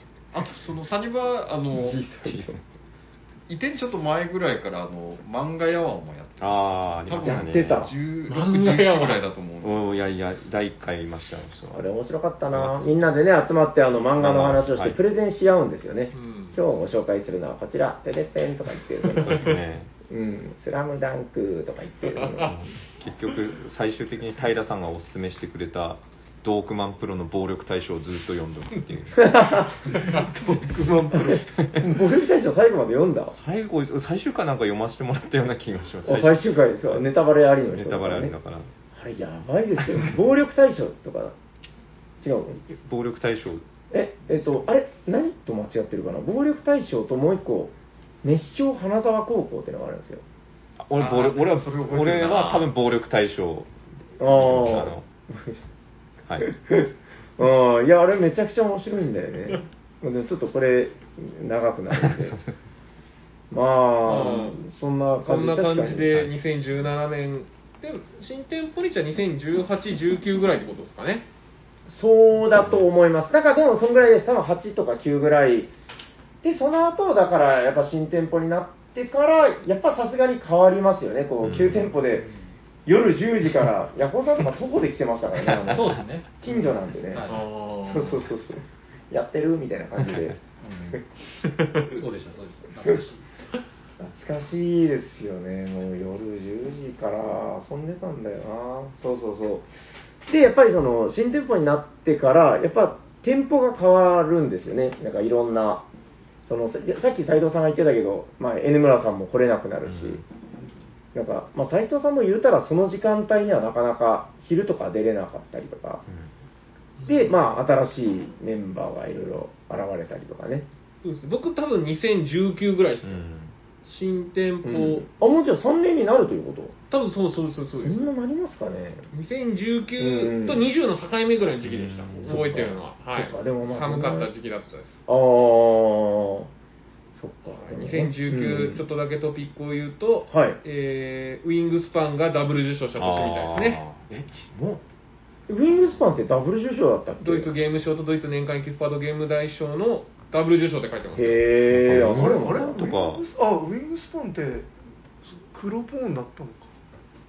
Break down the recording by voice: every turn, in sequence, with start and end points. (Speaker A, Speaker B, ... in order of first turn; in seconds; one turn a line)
Speaker A: 0.3-2.0
Speaker B: 1.8-2.6
Speaker C: 2.2-2.6
Speaker A: 3.5-10.0
Speaker C: 6.4-7.9
Speaker B: 7.2-7.9
Speaker D: 8.3-9.2
Speaker C: 9.6-11.8
Speaker B: 11.7-19.5
Speaker C: 12.5-12.9
Speaker C: 14.2-15.0
Speaker D: 16.1-16.6
Speaker C: 19.2-19.9
Speaker B: 20.1-22.6
Speaker D: 22.2-22.5
Speaker C: 22.4-29.6
Speaker B: 29.1-29.9
Speaker E: 29.9-31.6
Speaker B: 31.7-33.4
Speaker C: 33.3-37.1
Speaker B: 36.0-38.4
Speaker C: 37.7-38.7
Speaker B: 39.0-41.3
Speaker B: 42.2-42.6
Speaker C: 42.6-43.6
Speaker B: 43.9-50.2
Speaker C: 50.8-55.0
Speaker A: 51.0-52.8
Speaker B: 54.2-55.6
Speaker B: 56.4-62.4
Speaker C: 62.0-62.5
Speaker B: 63.5-66.1
Speaker D: 64.0-64.6
Speaker D: 65.2-71.2
Speaker B: 71.9-75.7
Speaker C: 72.5-72.8
Speaker B: 76.4-82.3
Speaker C: 81.4-81.9
Speaker B: 82.9-87.3
Speaker C: 85.5-85.7
Speaker F: 85.7-86.3
Speaker F: 87.1-87.5
Speaker D: 87.3-88.2
Speaker B: 87.8-90.4
Speaker C: 90.0-90.3
Speaker F: 90.6-91.0
Speaker F: 91.8-93.2
Speaker B: 94.0-99.7
Speaker B: 100.3-105.9
Speaker B: 106.5-110.2
Speaker C: 109.8-110.2
Speaker B: 111.1-116.0
Speaker D: 117.0-117.3
Speaker B: 117.1-120.7
Speaker D: 121.0-123.2
Speaker C: 123.0-123.5
Speaker D: 123.8-125.1
Speaker B: 124.6-126.8
Speaker D: 126.9-128.0
Speaker B: 127.8-129.0
Speaker D: 129.1-135.0
Speaker B: 130.0-130.7
Speaker C: 131.6-132.7
Speaker B: 132.2-134.3
Speaker B: 135.1-136.5
Speaker B: 137.2-138.8
Speaker D: 137.7-143.8
Speaker B: 140.3-140.6
Speaker C: 142.9-144.1
Speaker B: 145.5-147.5
Speaker D: 147.2-151.4
Speaker B: 151.2-152.9
Speaker C: 151.7-153.2
Speaker E: 151.9-154.7
Speaker E: 155.3-156.7